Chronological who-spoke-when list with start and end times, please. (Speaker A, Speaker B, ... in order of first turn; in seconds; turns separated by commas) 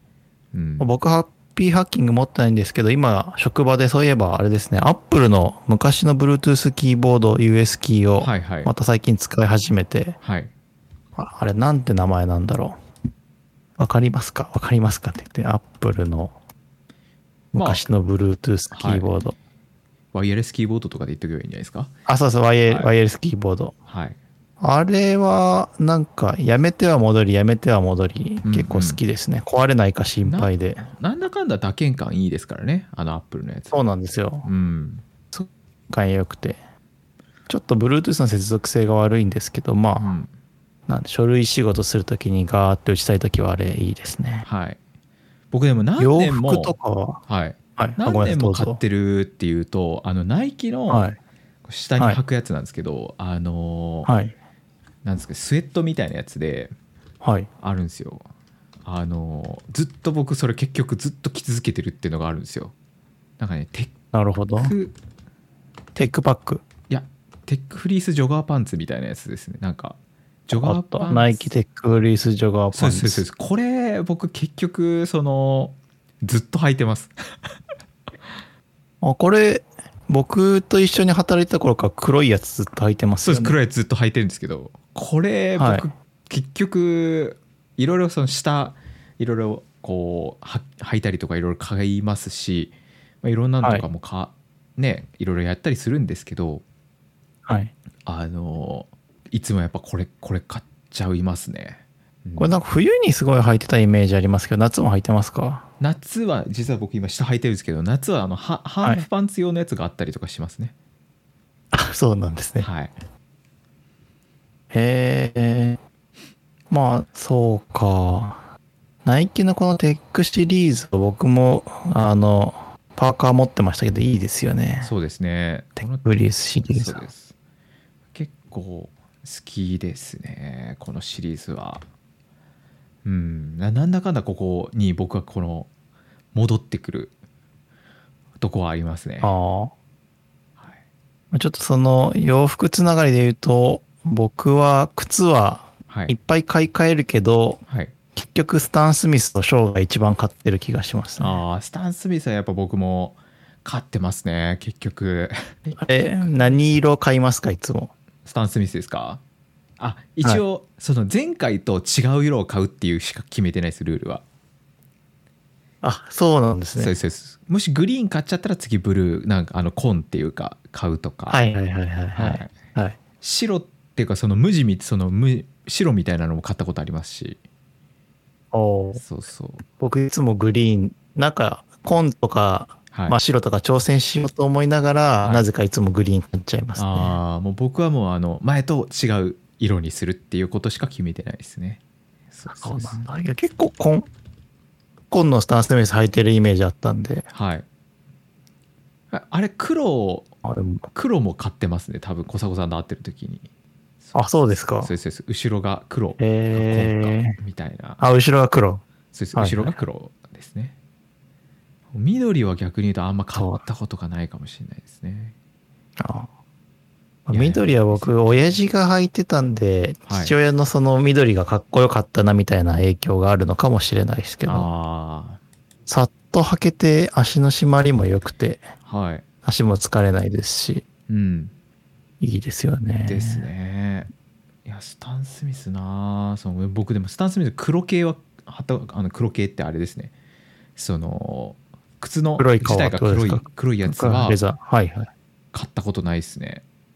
Speaker A: 0.5-0.9, Speaker B: 0.8-10.2, Speaker A: 8.2-8.7, Speaker A: 10.2-10.5, Speaker B: 11.2-12.8, Speaker B: 13.8-16.3, Speaker B: 17.5-19.4, Speaker A: 17.5-17.9, Speaker A: 18.7-19.1, Speaker A: 20.1-21.9, Speaker B: 22.1-23.7, Speaker A: 23.9-24.2, Speaker B: 24.6-30.9, Speaker A: 28.4-29.0, Speaker A: 30.2-33.8, Speaker B: 33.7-34.5, Speaker A: 34.4-35.0, Speaker B: 35.3-36.6, Speaker B: 37.5-40.1, Speaker A: 40.0-40.3, Speaker B: 40.9-44.5, Speaker A: 44.4-44.8, Speaker A: 45.5-46.8, Speaker B: 46.0-47.2, Speaker A: 47.3-51.0, Speaker B: 47.8-48.8, Speaker B: 50.9-51.2, Speaker A: 51.6-54.1, Speaker B: 54.0-54.3, Speaker A: 55.0-56.7, Speaker B: 57.2-57.5, Speaker A: 57.6-58.3, Speaker A: 58.8-62.7, Speaker A: 63.4-63.9, Speaker B: 64.1-64.7, Speaker A: 64.6-64.9, Speaker B: 66.0-66.6, Speaker A: 66.9-71.5, Speaker B: 70.5-73.2, Speaker A: 72.7-77.1, Speaker B: 79.0-83.5, Speaker A: 83.2-96.6, Speaker B: 85.5-85.9, Speaker B: 93.6-93.8, Speaker B: 97.5-97.7, Speaker A: 98.0-102.6, Speaker B: 102.4-105.7, Speaker A: 105.8-110.7, Speaker B: 111.7-112.7, Speaker A: 112.6-112.9, Speaker B: 114.7-115.8, Speaker B: 116.7-118.4, Speaker B: 119.0-124.9, Speaker A: 124.8-126.1, Speaker B: 125.8-127.0, Speaker A: 126.6-127.3, Speaker A: 128.1-131.8, Speaker A: 133.0-135.7, Speaker A: 136.3-137.1, Speaker A: 138.4-139.3, Speaker B: 139.2-139.7, Speaker B: 141.3-147.6, Speaker A: 145.9-146.1, Speaker A: 147.7-147.9, Speaker B: 148.1-151.4, Speaker A: 151.2-156.6, Speaker B: 155.7-157.9, Speaker A: 158.2-159.2, Speaker A: 159.8-164.2, Speaker B: 165.8-167.0, Speaker A: 166.8-171.4, Speaker B: 171.3-173.0, Speaker A: 172.1-172.5, Speaker A: 173.2-177.4, Speaker B: 178.5-179.0, Speaker A: 178.9-179.6, Speaker B: 179.8-187.2, Speaker A: 186.8-191.8, Speaker A: 192.3-193.0, Speaker B: 192.5-194.1, Speaker B: 195.1-197.3, Speaker A: 197.3-197.7, Speaker A: 199.1-200.3, Speaker B: 200.4-200.9, Speaker A: 200.9-203.5, Speaker B: 204.1-204.9, Speaker A: 204.8-208.0, Speaker B: 206.2-207.4, Speaker B: 208.0-208.8, Speaker A: 209.1-210.7, Speaker B: 209.3-209.8, Speaker A: 211.9-215.3, Speaker B: 213.3-213.6, Speaker B: 216.0-216.3, Speaker B: 217.3-224.7, Speaker A: 217.3-218.6, Speaker A: 220.1-220.3, Speaker A: 224.4-225.4, Speaker B: 225.9-228.7, Speaker A: 228.8-229.2, Speaker B: 229.4-230.8, Speaker A: 231.1-231.5, Speaker B: 232.2-233.5, Speaker A: 233.1-234.1, Speaker A: 234.6-240.1, Speaker A: 240.8-244.4, Speaker B: 242.4-245.1, Speaker A: 245.5-246.6